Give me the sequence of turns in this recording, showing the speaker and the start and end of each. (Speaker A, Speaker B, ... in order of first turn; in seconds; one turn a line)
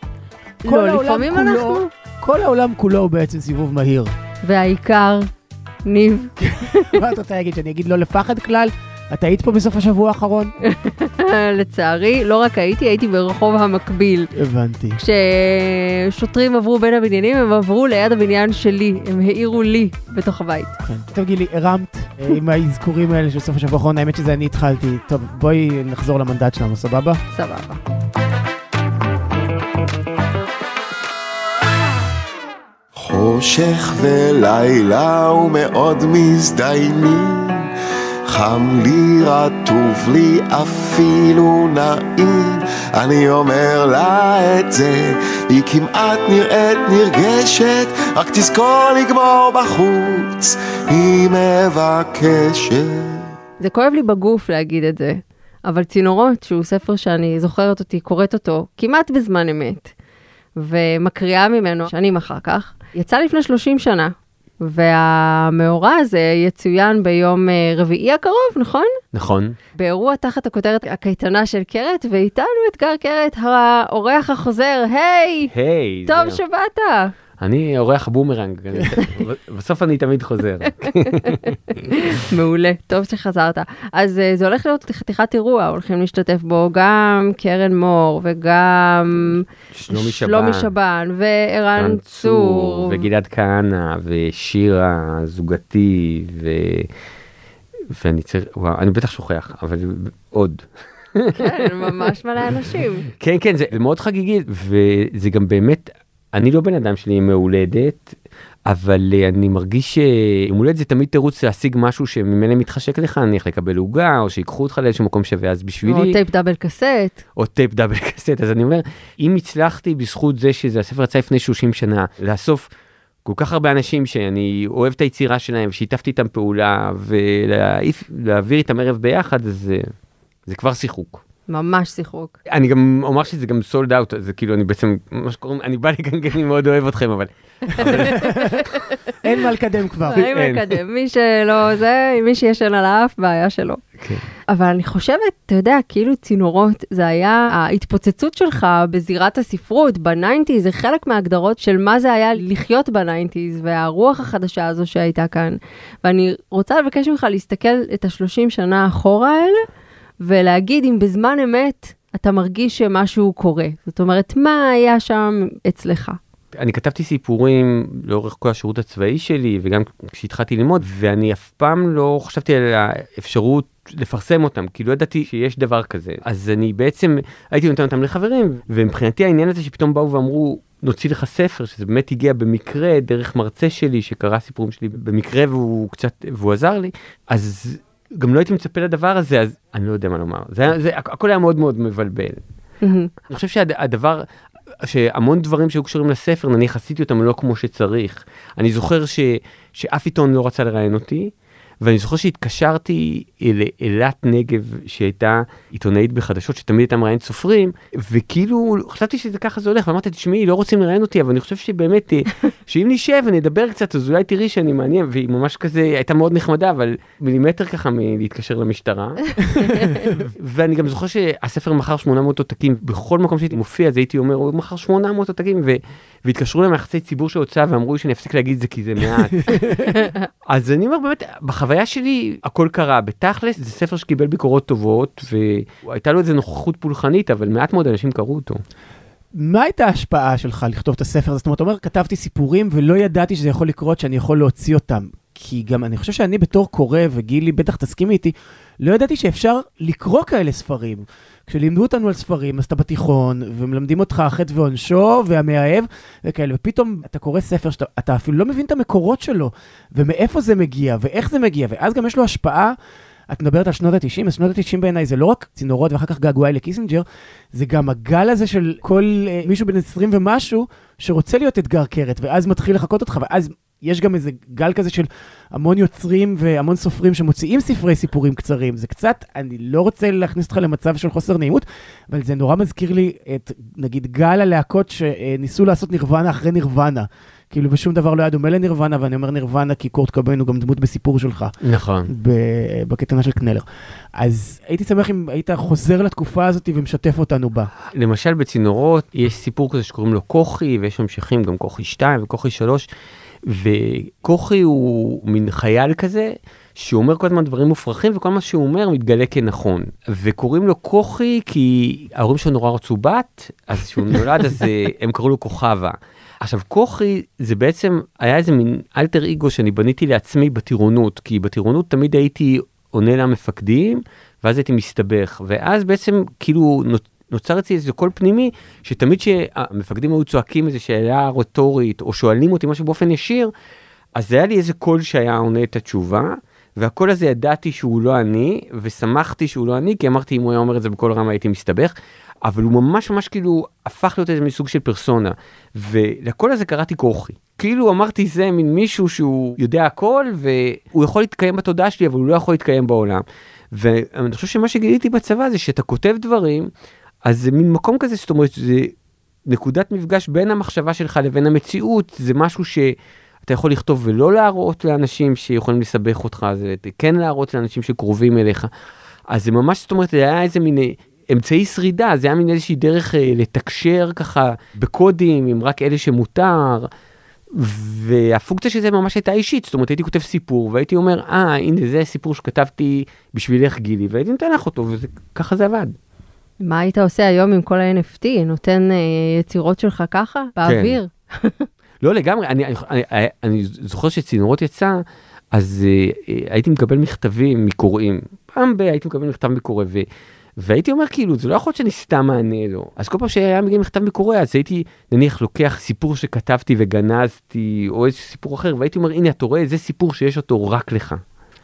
Speaker A: 0.6-1.9
Speaker B: 0.6-4.1
Speaker A: 4.4-5.3
Speaker A: 5.8-7.0
Speaker B: 6.4-10.5
Speaker A: 10.6-14.3
Speaker B: 14.3-15.0
Speaker A: 15.0-20.8
Speaker B: 20.8-27.2
Speaker A: 27.3-27.8
Speaker C: 32.9-37.7
Speaker C: 38.3-53.3
Speaker A: 53.6-59.9
Speaker A: 60.6-68.9
Speaker D: 69.1-69.5
Speaker A: 69.8-75.5
Speaker D: 75.5-76.4
Speaker A: 76.1-77.1
Speaker D: 77.4-81.5
Speaker A: 81.1-93.0
Speaker D: 89.7-90.7
Speaker D: 91.8-96.9
Speaker D: 97.9-102.1
Speaker A: 101.4-103.0
Speaker D: 103.2-108.1
Speaker D: 108.7-116.2
Speaker A: 115.8-117.2
Speaker D: 117.3-122.7
Speaker D: 123.2-129.9
Speaker D: 130.5-131.2
Speaker A: 131.5-132.3
Speaker D: 132.5-138.5
Speaker A: 137.8-139.1
Speaker B: 137.8-138.6
Speaker B: 139.2-140.3
Speaker A: 140.1-143.8
Speaker D: 140.1-140.7
Speaker A: 144.5-159.6
Speaker A: 160.2-166.2
Speaker D: 166.5-192.4
Speaker A: 192.8-193.1
Speaker D: 193.3-194.2
Speaker D: 194.8-219.4
Speaker A: 219.6-220.1
Speaker D: 220.1-229.9
Speaker B: 229.5-229.8
Speaker D: 230.5-238.6
Speaker B: 239.3-262.7
Speaker B: 263.3-291.5
Speaker D: 291.6-292.1
Speaker B: 292.1-297.7
Speaker D: 297.9-302.9
Speaker D: 303.4-333.5
Speaker D: 334.1-356.7
Speaker D: 357.2-358.9
Speaker D: 359.5-362.9
Speaker D: 363.4-368.7
Speaker D: 369.3-376.9
Speaker D: 377.5-385.9
Speaker A: 386.6-391.7
Speaker D: 390.6-391.0
Speaker D: 392.0-395.0
Speaker D: 395.5-400.1
Speaker D: 400.6-411.2